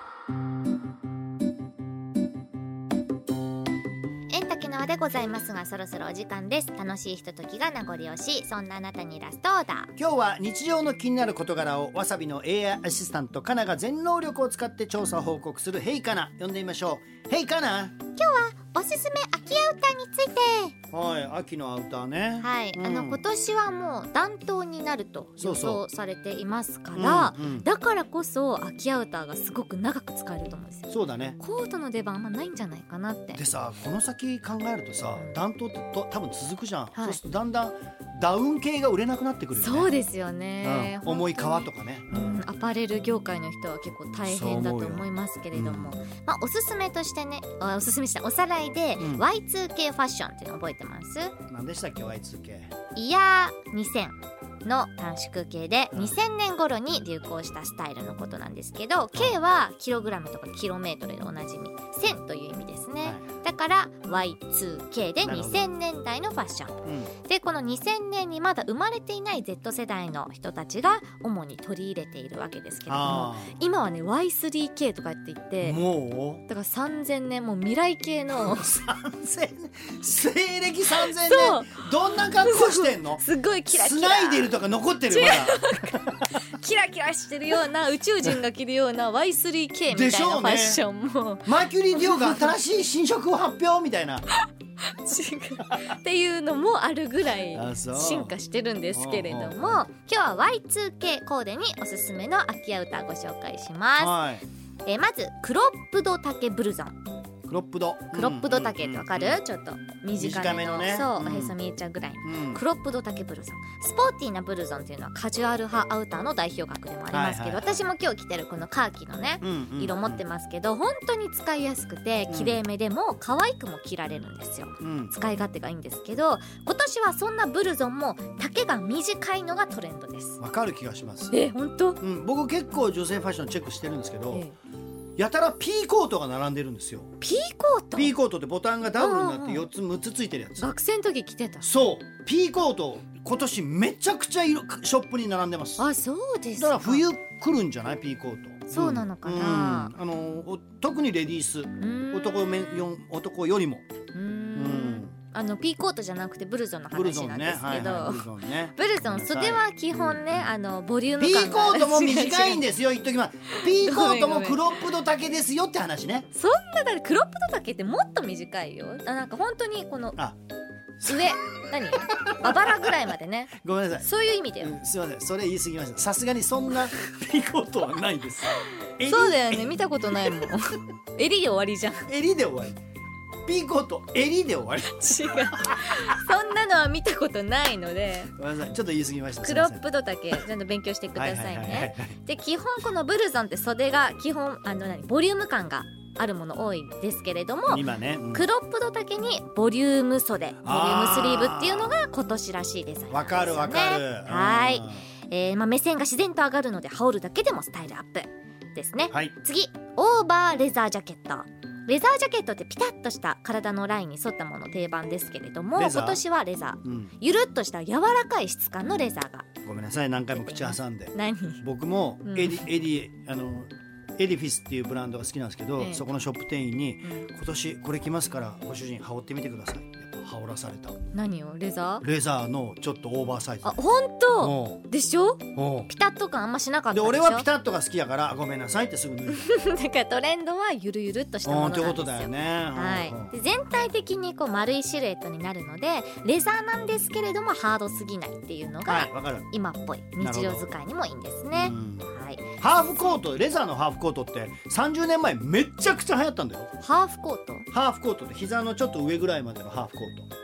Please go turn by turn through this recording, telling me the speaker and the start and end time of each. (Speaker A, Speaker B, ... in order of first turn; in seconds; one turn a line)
Speaker A: 4.3-9.9
Speaker B: 10.0-18.0
Speaker A: 18.1-20.7
Speaker B: 20.9-23.2
Speaker A: 22.4-30.9
Speaker B: 25.4-25.8
Speaker B: 26.9-27.7
Speaker B: 30.9-31.4
Speaker A: 31.4-33.4
Speaker B: 33.4-39.9
Speaker A: 35.1-35.4
Speaker A: 39.6-51.4
Speaker B: 40.6-42.5
Speaker B: 44.2-46.0
Speaker B: 49.0-49.3
Speaker B: 51.5-52.7
Speaker A: 52.9-75.8
Speaker B: 55.9-56.2
Speaker B: 65.2-65.7
Speaker B: 66.8-67.1
Speaker B: 72.9-73.5
Speaker B: 75.6-76.5
Speaker A: 76.5-78.7
Speaker B: 78.4-86.3
Speaker A: 80.9-84.5
Speaker A: 85.1-92.5
Speaker B: 89.9-90.8
Speaker B: 91.5-94.3
Speaker A: 94.8-104.2
Speaker B: 97.5-98.3
Speaker B: 98.9-99.8
Speaker B: 104.0-104.4
Speaker A: 104.8-107.0
Speaker B: 107.5-109.4
Speaker A: 108.1-130.4
Speaker B: 110.2-111.6
Speaker B: 112.2-112.6
Speaker B: 117.1-117.9
Speaker B: 119.4-120.2
Speaker B: 122.3-122.6
Speaker B: 124.8-125.2
Speaker B: 130.4-131.3
Speaker A: 131.3-132.0
Speaker B: 132.0-134.5
Speaker B: 135.2-137.1
Speaker A: 137.2-138.1
Speaker B: 137.9-140.7
Speaker A: 139.0-139.7
Speaker A: 140.6-141.7
Speaker B: 141.6-145.9
Speaker A: 145.8-147.0
Speaker B: 146.6-153.8
Speaker A: 148.7-149.9
Speaker A: 151.8-152.8
Speaker A: 154.1-162.7
Speaker B: 154.6-155.1
Speaker B: 156.9-159.7
Speaker B: 161.2-166.3
Speaker A: 163.5-164.8
Speaker A: 166.3-170.2
Speaker B: 171.0-171.3
Speaker A: 171.0-174.7
Speaker B: 171.9-172.9
Speaker B: 173.6-174.1
Speaker B: 174.6-180.6
Speaker A: 179.0-182.1
Speaker B: 182.1-182.8
Speaker B: 183.5-185.8
Speaker A: 184.8-188.3
Speaker B: 188.3-189.8
Speaker A: 189.4-219.5
Speaker B: 191.2-192.2
Speaker B: 197.7-198.5
Speaker B: 200.6-201.9
Speaker B: 203.1-205.0
Speaker B: 215.8-216.2
Speaker B: 216.8-217.1
Speaker B: 219.6-231.0
Speaker A: 220.3-221.6
Speaker A: 222.2-222.7
Speaker A: 225.8-226.0
Speaker A: 231.1-232.1
Speaker B: 232.0-233.8
Speaker A: 233.6-237.5
Speaker B: 234.4-234.8
Speaker B: 235.6-235.9
Speaker B: 236.9-239.5
Speaker A: 239.3-252.5
Speaker B: 241.4-243.3
Speaker B: 248.8-249.5
Speaker B: 250.2-250.7
Speaker B: 251.5-256.7
Speaker A: 256.8-257.7
Speaker B: 257.7-260.3